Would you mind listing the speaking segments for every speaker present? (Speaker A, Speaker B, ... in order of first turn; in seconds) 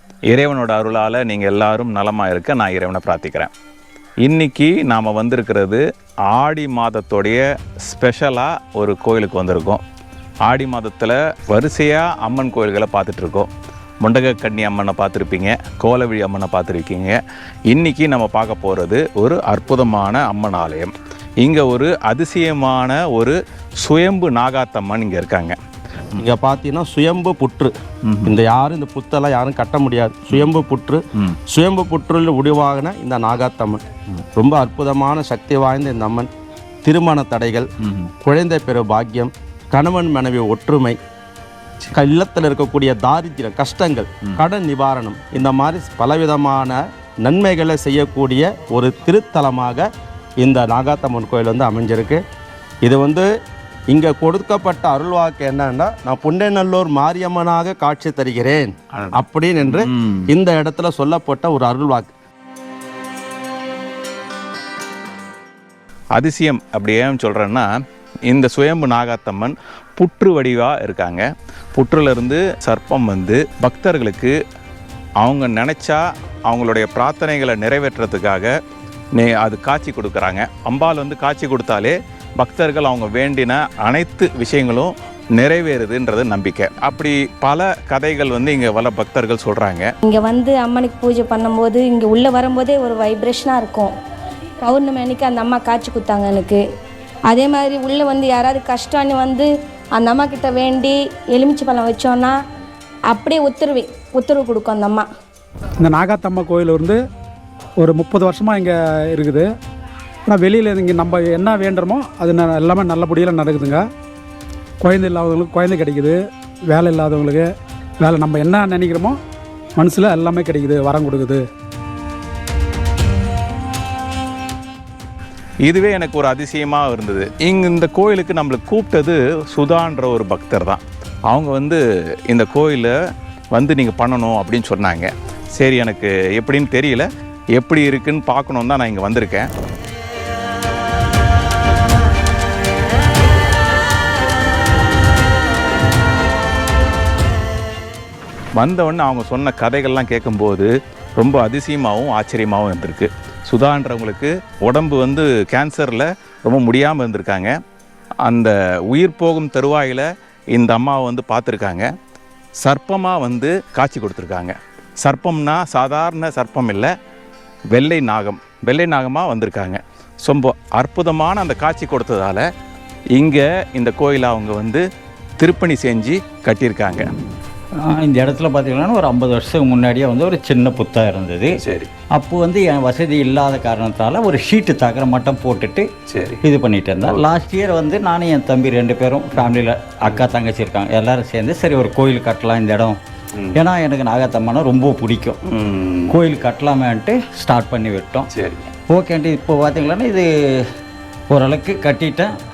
Speaker A: 0.3-3.5, 4.2-9.8, 10.5-13.5, 14.0-17.2, 17.7-25.6, 28.0-28.4, 31.1-31.4, 37.8-38.1, 58.9-60.3, 66.2-67.7, 68.3-74.4, 75.2-78.5, 79.1-89.9, 125.6-132.9, 133.5-139.5, 148.6-157.5, 158.2-161.9, 162.6-166.9, 167.7-172.4, 173.1-174.8, 175.4-177.1, 181.6-181.9, 186.1-186.4, 190.1-190.3, 195.4-196.2, 198.3-198.7
Speaker B: 26.2-27.7, 28.2-33.8, 34.4-36.3, 36.8-37.7, 38.2-41.0, 41.9-49.9, 50.4-52.2, 52.8-53.3, 53.9-62.1
Speaker C: 90.0-93.9, 94.6-96.6, 97.3-102.3, 103.1-105.1
Speaker D: 105.8-107.0, 107.8-109.5, 110.3-113.9, 114.8-117.5, 118.0-119.2, 119.8-121.4
Speaker E: 177.8-181.6, 182.1-185.9, 186.4-193.0, 193.5-195.4, 196.1-198.3, 198.9-200.7, 201.3-202.3